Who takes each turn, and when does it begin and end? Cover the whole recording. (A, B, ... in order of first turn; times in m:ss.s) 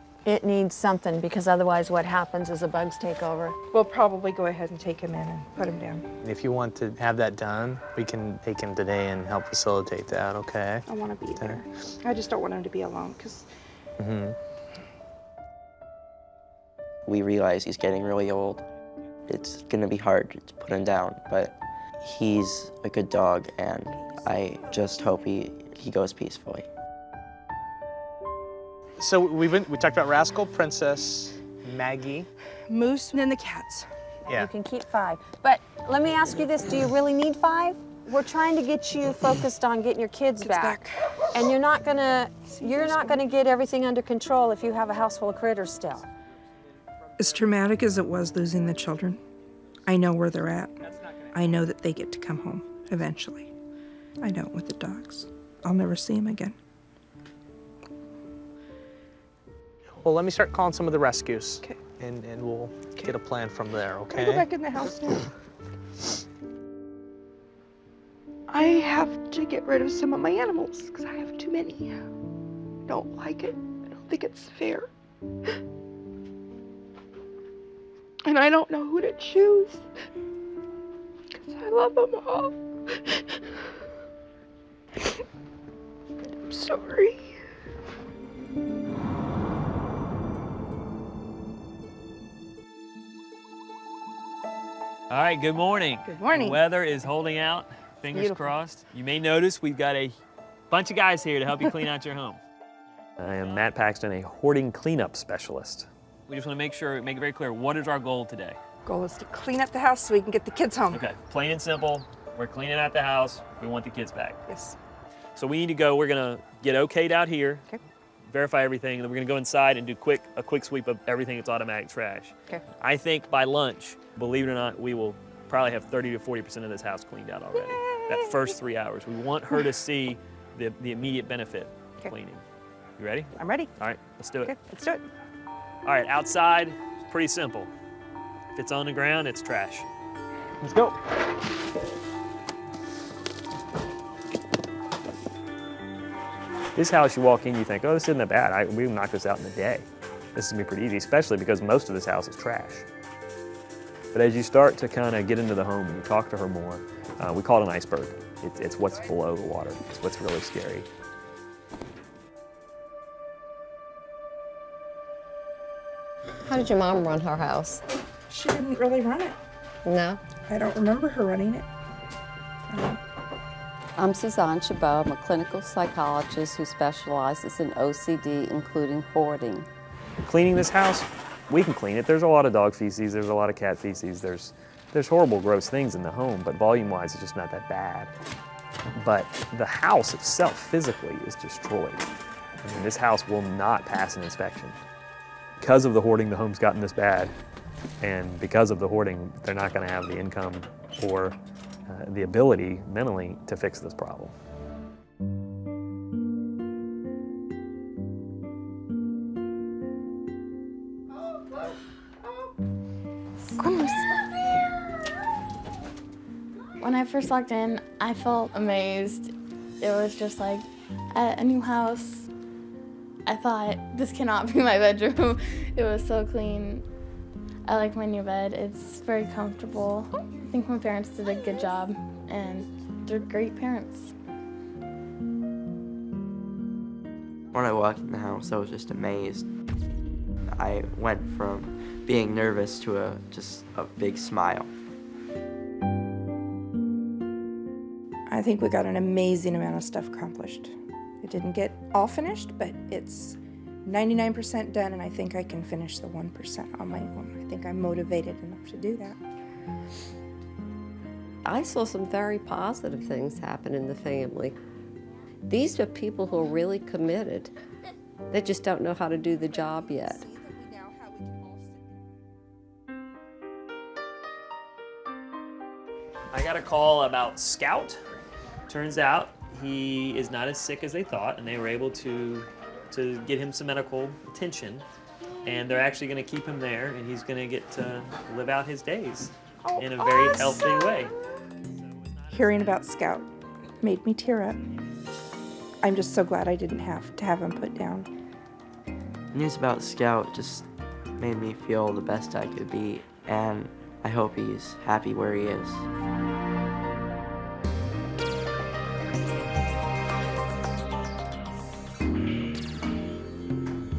0:00.2-0:03.6 A
0:03.7-0:06.1 B
0:06.2-0:10.8 C
0:10.9-0:13.5 B
0:14.0-0:14.4 C
0:17.1-0:18.6 D
0:19.3-0:26.7 D
0:29.0-0:32.3 C
0:32.7-0:33.9 B
0:34.3-0:46.1 A
0:40.4-0:41.2 B
0:42.6-0:43.1 B
0:47.2-0:49.2 B
0:49.8-0:53.5 B
0:54.2-0:56.6 B
1:00.0-1:04.4 C
1:04.2-1:05.2 B
1:08.5-1:12.0 B
1:12.9-1:14.8 B
1:18.3-1:19.8 B
1:21.4-1:22.5 B
1:26.5-1:27.1 B
1:35.1-1:40.2 E
1:36.1-1:36.6 B
1:40.7-1:42.4 E
1:43.2-1:48.6 E
1:48.9-1:51.0 B
1:50.9-1:54.4 E
1:54.5-1:54.8 B
1:55.4-1:57.7 E
1:58.3-2:12.4 E
2:13.0-2:14.6 E
2:14.4-2:15.0 B
2:15.8-2:17.7 E
2:18.5-2:19.9 E
2:26.8-2:32.9 E
2:34.1-2:40.9 E
2:46.5-2:47.8 F
2:48.3-2:49.4 B
2:49.8-2:50.2 F
2:50.4-2:51.7 B
2:52.7-2:53.0 B
2:54.0-2:59.7 F
3:00.2-3:08.1 E
3:09.0-3:12.1 E
3:12.6-3:14.8 E
3:15.6-3:17.3 E
3:18.0-3:21.4 E
3:21.9-3:24.4 E
3:33.5-3:33.8 G
3:36.8-3:42.3 G
3:43.3-3:46.8 G
3:47.7-3:54.1 G
3:57.5-3:59.5 D
4:00.5-4:04.7 D
4:08.3-4:19.2 B
4:21.4-4:24.6 F
4:25.5-4:27.5 F
4:28.3-4:30.2 F
4:29.5-4:31.0 B
4:36.3-4:38.0 E
4:38.7-4:44.9 E
4:45.4-4:51.1 E
4:52.3-4:54.6 B
4:55.8-4:58.1 B
4:59.3-5:00.7 D
5:01.2-5:05.9 D